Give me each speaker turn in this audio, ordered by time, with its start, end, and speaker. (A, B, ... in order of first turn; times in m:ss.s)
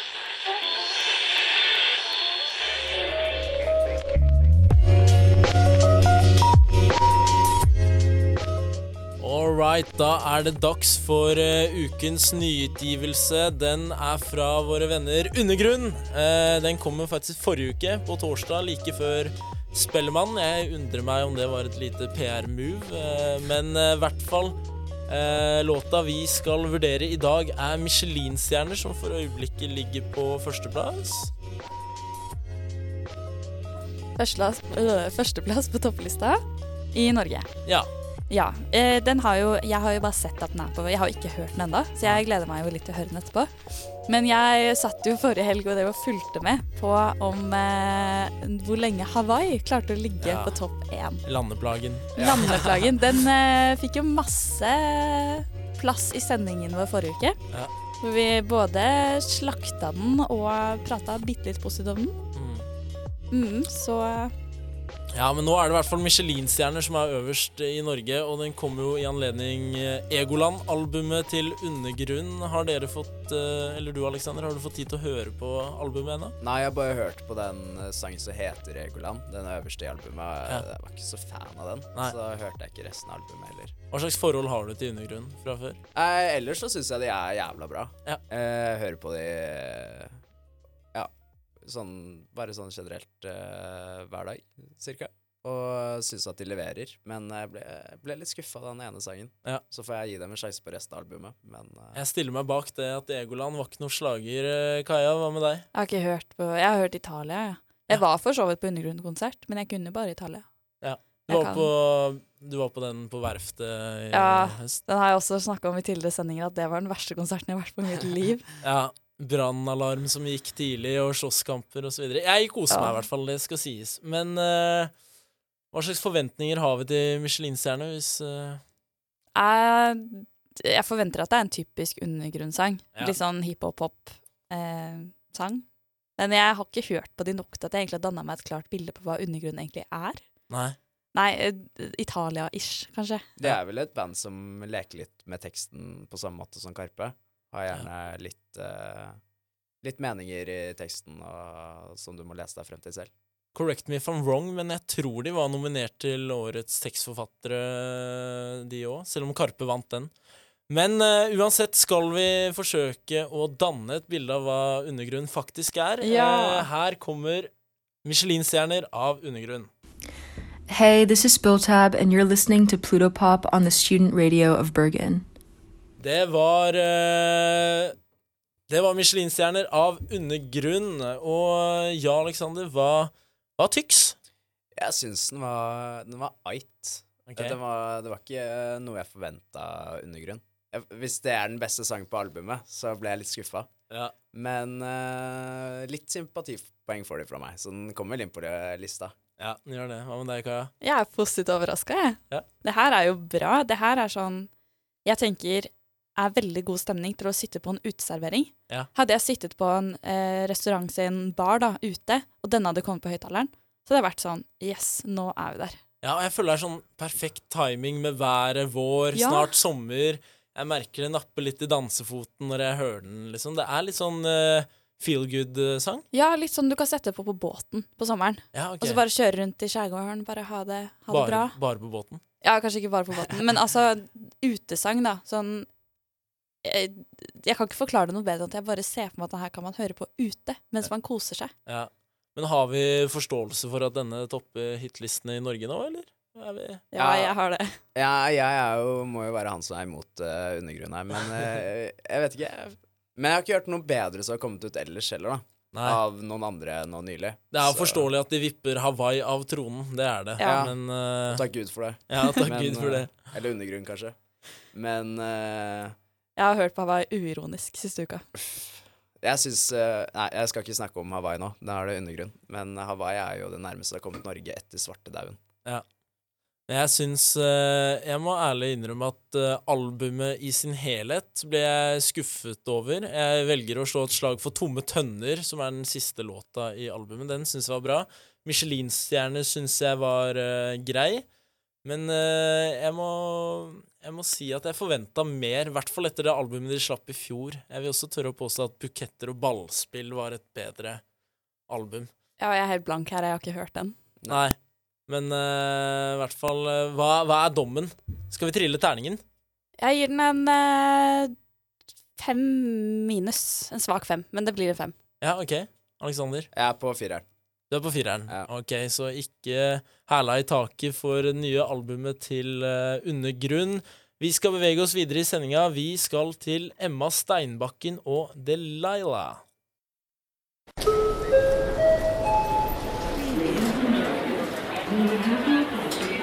0:09.2-0:24.6 A
0:25.1-0:31.3 A
0:34.2-0:36.4 B
0:36.9-0:37.5 B
0:38.3-0:43.5 B
0:44.1-0:51.2 B
0:50.2-0:50.6 A
0:51.2-0:52.8 A
0:52.2-0:52.6 C
0:52.2-0:57.4 B
0:58.0-1:02.2 B
1:02.3-1:02.7 A
1:03.3-1:04.3 B
1:05.1-1:16.4 A
1:16.4-1:23.7 C
1:23.9-1:25.8 A
1:26.0-1:30.2 C
1:30.9-1:42.0 C
1:42.0-1:45.7 A
1:45.7-1:50.4 B
1:50.8-1:54.8 A
1:51.3-1:51.7 B
1:54.1-1:58.5 B
1:58.6-2:04.9 A
2:02.7-2:03.0 B
2:05.7-2:08.6 A
2:09.4-2:15.6 B
2:16.2-2:20.2 B
2:20.5-2:20.8 A
2:21.1-2:23.3 B
2:23.4-2:29.2 C
2:29.8-2:33.1 C
2:33.6-2:40.1 A
2:40.7-2:47.5 A
2:46.0-2:46.7 B
2:48.0-2:49.7 A
2:50.7-2:55.3 D
2:56.0-2:58.0 A
2:58.7-3:04.2 A
3:04.8-3:13.7 C
3:07.3-3:07.6 A
3:14.3-3:19.2 C
3:19.4-3:20.7 A
3:20.8-3:24.5 B
3:25.0-3:35.8 B
3:36.0-3:46.0 A
3:39.1-3:39.5 B
3:46.1-3:51.6 B
3:48.5-3:49.0 A
3:51.1-3:52.2 A
3:52.4-3:55.7 B
3:56.6-4:01.5 B
4:01.7-4:06.9 A
4:06.9-4:07.8 B
4:07.0-4:07.4 C
4:08.0-4:18.1 C
4:15.7-4:16.0 A
4:17.5-4:21.5 A
4:20.4-4:20.7 B
4:20.4-4:20.8 C
4:21.3-4:24.2 C
4:22.1-4:23.1 A
4:24.7-4:26.0 C
4:26.4-4:28.2 B
4:28.4-4:35.4 C
4:36.7-4:51.2 A
4:51.8-5:01.0 A
5:01.7-5:02.1 A
5:02.4-5:04.0 B
5:04.3-5:04.6 A
5:05.1-5:09.2 A
5:09.8-5:11.4 B
5:12.2-5:15.0 B
5:15.2-5:16.5 A
5:16.5-5:17.2 C
5:17.7-5:29.4 A